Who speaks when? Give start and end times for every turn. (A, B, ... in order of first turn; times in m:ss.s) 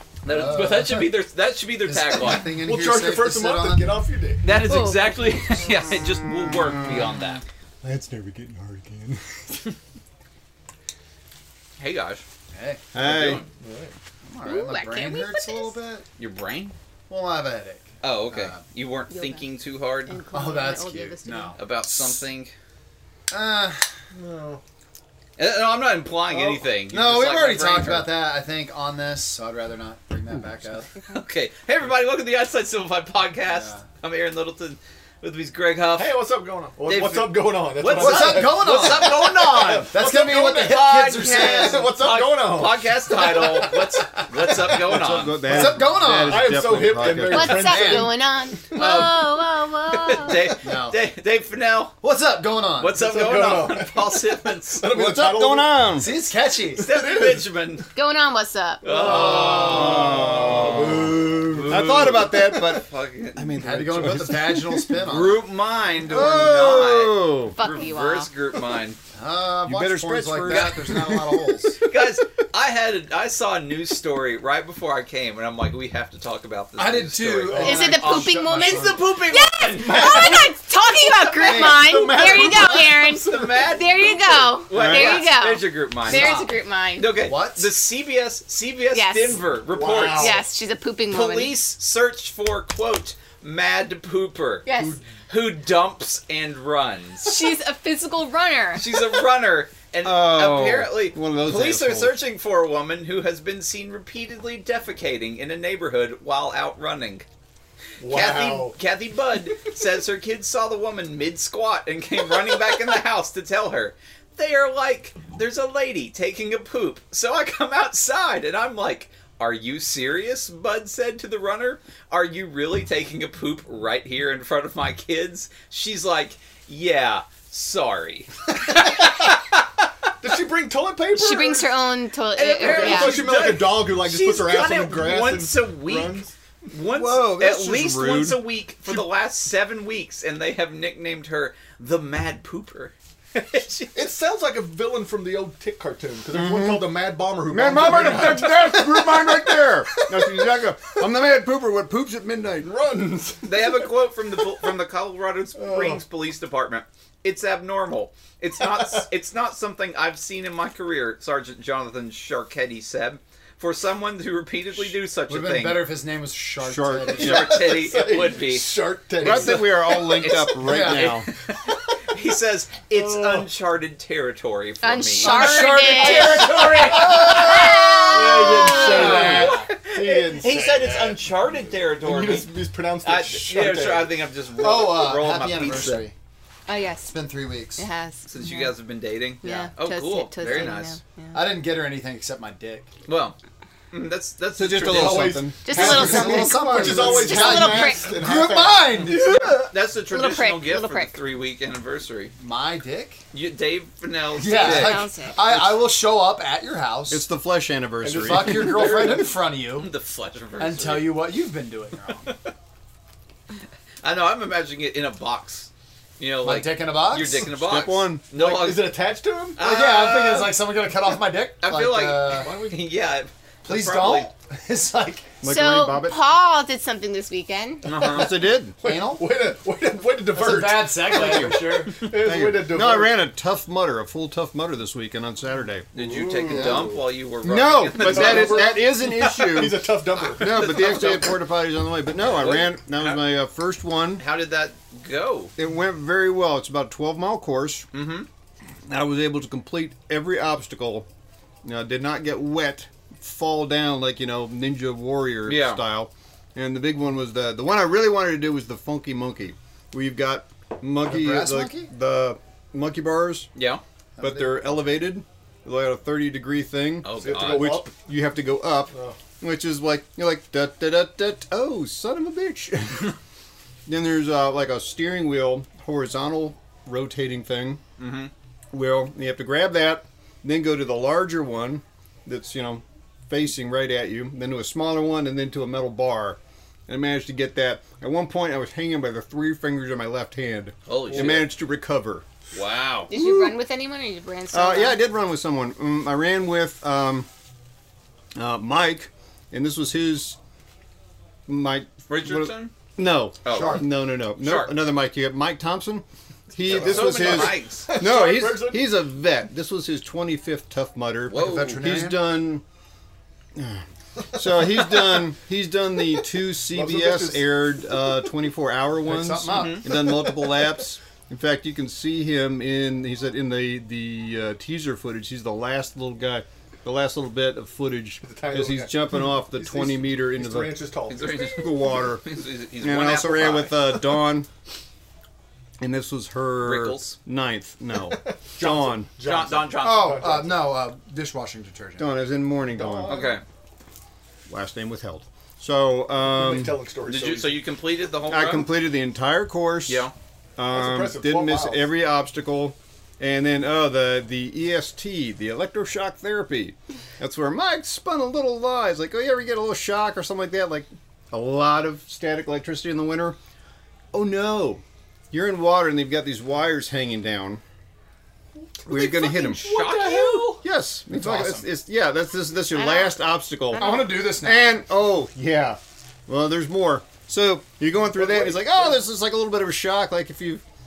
0:00.2-0:02.5 A
0:00.3-0:01.2 B
0:01.8-0:04.1 B
0:02.6-0:04.4 C
0:04.4-0:07.4 A
0:04.4-0:05.7 D
0:05.9-0:07.2 E
0:07.8-0:09.7 E
0:11.8-0:12.2 A
0:12.5-0:12.8 B
0:12.9-0:13.4 E
0:12.9-0:13.5 A
0:13.6-0:13.9 C
0:14.3-0:16.0 B
0:14.4-0:15.8 D
0:16.2-0:16.7 A
0:17.1-0:18.5 B
0:18.0-0:20.2 A
0:19.1-0:19.4 D
0:20.1-0:21.6 D
0:20.3-0:21.8 B
0:21.5-0:22.5 A
0:23.3-0:24.6 B
0:25.4-0:28.2 A
0:26.8-0:30.9 B
0:31.1-0:36.2 A
0:33.5-0:33.8 B
0:36.0-0:39.1 C
0:36.8-0:45.5 A
0:36.9-0:43.7 B
0:39.6-0:40.5 C
0:41.2-0:42.6 C
0:44.6-0:48.2 B
0:44.8-0:47.8 E
0:46.3-0:48.1 C
0:47.2-0:50.5 D
0:48.7-0:52.0 A
0:50.6-0:51.0 B
0:52.0-0:53.6 B
0:52.8-0:54.9 A
0:53.0-0:54.2 C
0:54.8-0:55.5 C
0:54.9-0:56.1 E
0:55.1-0:56.9 B
0:56.7-0:57.9 A
0:57.9-0:59.0 D
0:58.8-1:00.9 A
0:58.9-1:02.0 B
0:58.9-1:04.9 E
1:01.5-1:03.5 A
1:03.6-1:05.5 B
1:05.0-1:09.0 A
1:06.0-1:07.6 E
1:07.5-1:08.3 D
1:09.1-1:11.8 B
1:09.6-1:11.2 E
1:10.5-1:26.4 A
1:16.8-1:19.1 B
1:17.5-1:27.1 D
1:21.4-1:22.8 B
1:24.7-1:25.3 E
1:26.0-1:26.5 B
1:27.0-1:30.4 A
1:27.2-1:27.6 B
1:28.9-1:29.4 D
1:30.0-1:30.4 B
1:30.1-1:31.6 D
1:31.1-1:34.7 A
1:34.6-1:35.0 D
1:35.2-1:37.4 A
1:37.2-1:39.1 D
1:38.8-1:47.2 A
1:40.0-1:42.2 E
1:48.0-1:48.3 B
1:48.1-2:09.9 A
1:48.3-1:48.7 C
2:10.2-2:11.7 C
2:11.1-2:13.2 D
2:12.4-2:24.1 A
2:12.6-2:14.3 B
2:13.2-2:16.3 C
2:16.9-2:18.4 E
2:24.0-2:28.4 C
2:26.3-2:32.8 E
2:27.1-2:29.5 B
2:33.1-2:33.4 B
2:33.4-2:45.9 A
2:45.3-2:47.7 B
2:46.6-2:47.7 E
2:47.1-3:06.1 A
2:47.8-2:49.3 C
2:49.2-2:51.3 E
2:50.2-2:51.2 B
2:53.0-2:53.4 C
2:54.8-2:59.3 D
2:55.2-2:59.8 B
2:57.5-2:57.8 E
2:58.1-2:58.5 C
2:59.3-3:01.4 C
3:02.2-3:04.0 C
3:04.4-3:06.1 B
3:06.7-3:07.2 D
3:07.1-3:07.8 B
3:07.8-3:08.7 D
3:08.2-3:11.0 A
3:09.4-3:11.4 D
3:10.4-3:10.7 B
3:11.3-3:12.9 B
3:13.0-3:13.4 A
3:13.9-3:15.4 A
3:14.5-3:18.0 E
3:14.8-3:19.4 B
3:15.6-3:18.1 D
3:17.1-3:17.5 C
3:18.1-3:18.7 C
3:19.0-3:19.7 E
3:19.1-3:22.3 A
3:20.1-3:21.2 D
3:22.4-3:23.2 B
3:23.3-3:25.1 A
3:24.3-3:27.2 B
3:24.5-3:25.4 D
3:27.1-3:29.0 E
3:28.1-3:29.9 B
3:29.0-3:31.3 A
3:30.6-3:32.4 B
3:34.0-3:39.0 A
3:36.4-3:37.5 B
3:37.5-3:38.2 E
3:38.6-3:42.8 B
3:38.7-3:39.6 C
3:39.6-3:40.7 A
3:41.6-3:44.3 A
3:42.4-3:42.7 C
3:43.6-3:45.4 B
3:45.4-3:46.2 E
3:45.4-3:47.9 D
3:47.8-3:48.3 A
3:48.0-3:48.8 E
3:48.8-3:52.5 B
3:48.8-3:50.7 C
3:51.1-3:51.5 E
3:52.0-3:53.0 C
3:52.0-3:55.9 E
3:55.9-3:58.9 A
3:56.0-3:57.0 B
3:56.2-3:56.7 C
3:57.4-4:04.3 E
3:58.3-3:58.7 C
3:59.4-4:00.5 B
3:59.6-4:01.0 C
4:00.8-4:01.1 A
4:02.3-4:03.2 A
4:04.2-4:05.5 A
4:05.6-4:07.9 E
4:07.9-4:08.3 A
4:08.9-4:11.1 E
4:11.6-4:23.5 E
4:15.4-4:15.8 A
4:21.0-4:21.9 B
4:23.5-4:23.8 A
4:24.2-4:24.8 B
4:24.2-4:33.2 E
4:27.0-4:27.8 A
4:27.2-4:27.5 B
4:33.9-4:37.8 E
4:38.0-4:38.3 A
4:38.7-4:52.2 E
4:50.9-4:51.5 A
4:52.5-4:53.1 A
4:53.1-4:53.5 E
4:53.1-4:55.0 D
4:54.5-4:57.3 E
4:58.4-5:00.4 E
5:01.5-5:12.6 E
5:02.1-5:02.7 A
5:03.4-5:04.7 A
5:03.5-5:03.8 B
5:06.6-5:07.9 A
5:07.0-5:08.4 B
5:07.9-5:08.8 C
5:11.3-5:11.9 A
5:11.3-5:12.4 B
5:13.6-5:32.2 E
5:16.7-5:17.1 C
5:19.0-5:20.2 B
5:19.5-5:19.8 A
5:28.2-5:28.8 C
5:29.6-5:29.9 C
5:30.6-5:31.2 C
5:31.1-5:33.8 A
5:32.8-5:34.5 E
5:35.8-5:39.1 E
5:36.6-5:37.2 A
5:38.6-5:39.7 C
5:39.2-5:40.3 A
5:39.6-5:42.1 B
5:42.0-5:43.2 E
5:42.8-5:43.1 C
5:43.1-5:43.4 A
5:44.5-5:46.8 E
5:46.4-5:46.7 B
5:46.7-5:47.4 C
5:47.1-5:48.7 A
5:48.3-6:03.4 E
5:49.9-5:50.1 A
5:50.8-5:51.8 C
6:04.1-6:07.6 E
6:08.8-6:09.9 E
6:08.9-6:11.6 A
6:09.8-6:10.5 B
6:10.6-6:20.6 E
6:12.7-6:14.3 D
6:13.8-6:14.8 B
6:18.1-6:18.9 B